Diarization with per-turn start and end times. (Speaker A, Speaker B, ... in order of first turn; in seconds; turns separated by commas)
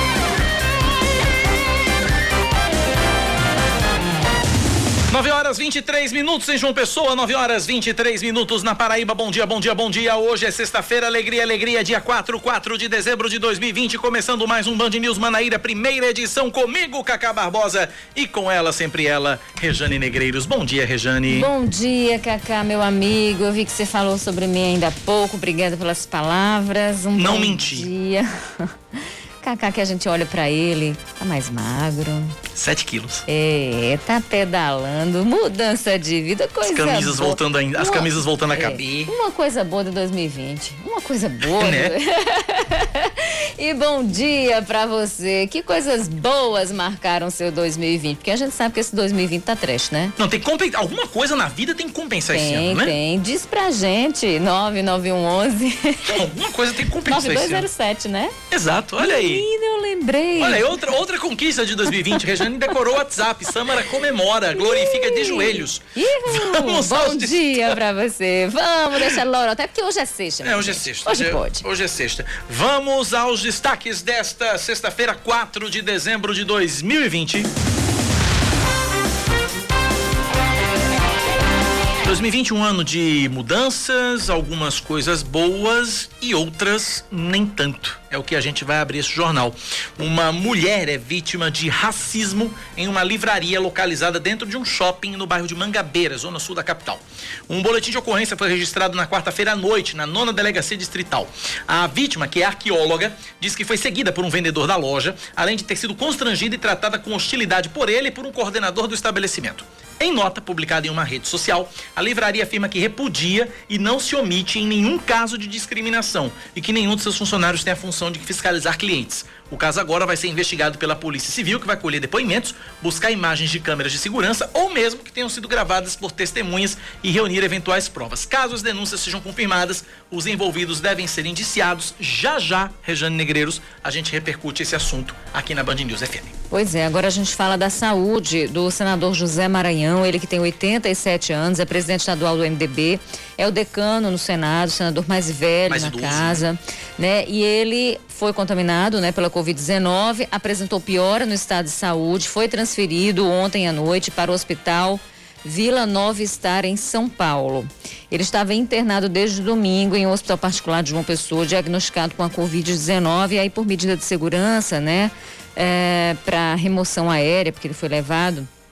Speaker A: 5.1-21.5, Speaker B: 21.3-32.3, Speaker A: 27.2-27.9, Speaker A: 32.5-33.2, Speaker B: 33.3-50.2, Speaker A: 36.6-39.1, Speaker A: 41.6-41.9, Speaker A: 50.2-52.9, Speaker B: 52.3-56.2, Speaker A: 56.1-57.7, Speaker B: 57.1-58.4, Speaker A: 58.5-59.4, Speaker B: 59.0-60.8, Speaker A: 60.4-67.8, Speaker B: 64.6-71.6, Speaker A: 70.4-77.5, Speaker A: 82.0-136.3, Speaker B: 136.5-168.5, Speaker A: 145.7-146.4